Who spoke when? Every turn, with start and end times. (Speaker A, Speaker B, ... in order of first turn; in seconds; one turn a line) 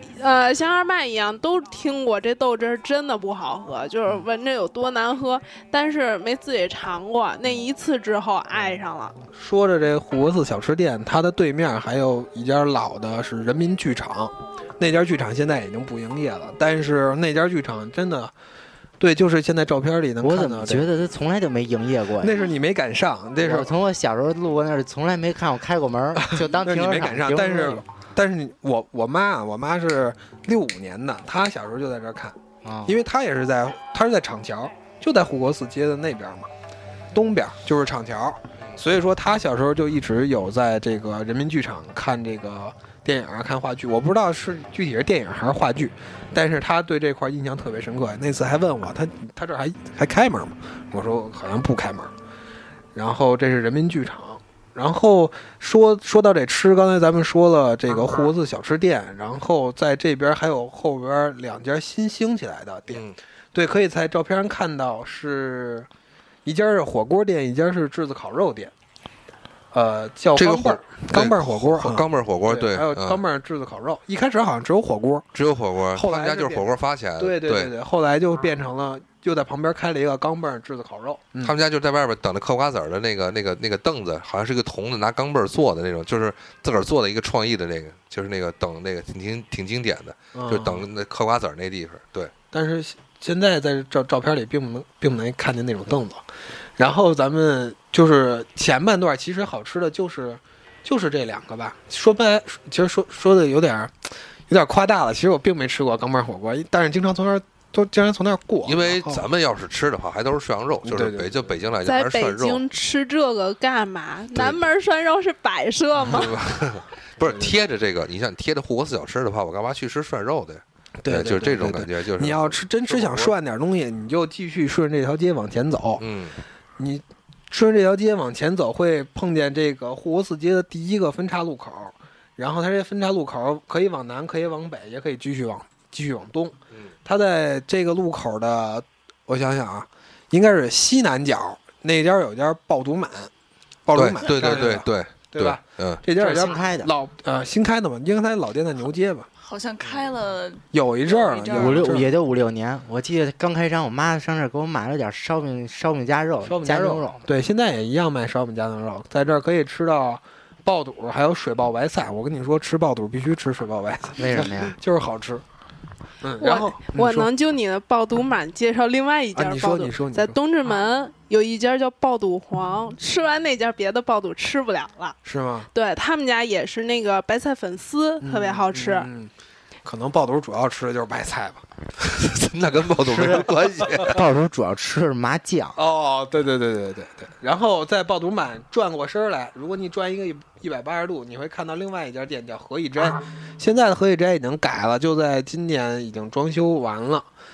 Speaker A: 0.2-9.2
Speaker B: 9.3-18.3
Speaker B: 19.0-20.9
Speaker C: 20.2-22.4
Speaker B: 22.2-23.7
Speaker C: 23.4-27.8
Speaker B: 26.2-32.4
Speaker C: 32.6-33.0
Speaker B: 32.9-36.5
Speaker B: 37.1-52.1
Speaker B: 52.9-65.9
Speaker D: 62.9-63.1
Speaker B: 66.4-68.7
Speaker B: 69.7-75.3
Speaker D: 70.3-73.2
Speaker D: 75.3-77.7
Speaker B: 75.9-76.7
Speaker B: 77.2-81.5
Speaker D: 81.4-92.3
Speaker B: 90.3-90.8
Speaker B: 92.5-96.2
Speaker B: 96.8-109.2
Speaker D: 108.6-112.6
Speaker B: 110.8-111.5
Speaker A: 111.8-116.3
Speaker D: 114.3-114.7
Speaker D: 116.1-123.3
Speaker B: 117.2-117.5
Speaker B: 121.0-126.0
Speaker D: 126.0-126.4
Speaker B: 126.8-143.3
Speaker B: 143.8-149.3
Speaker D: 143.9-146.0
Speaker C: 146.2-146.9
Speaker E: 149.4-152.0
Speaker B: 150.7-152.1
Speaker C: 151.5-157.2
Speaker B: 156.4-165.4
Speaker C: 164.2-164.8
Speaker B: 166.2-167.3
Speaker A: 166.4-175.2
Speaker B: 169.3-170.4
Speaker B: 175.2-175.7
Speaker A: 175.7-179.1
Speaker B: 178.2-179.3
Speaker B: 179.8-181.6
Speaker D: 182.0-184.2
Speaker C: 183.0-183.5
Speaker C: 184.0-185.8
Speaker B: 185.8-197.3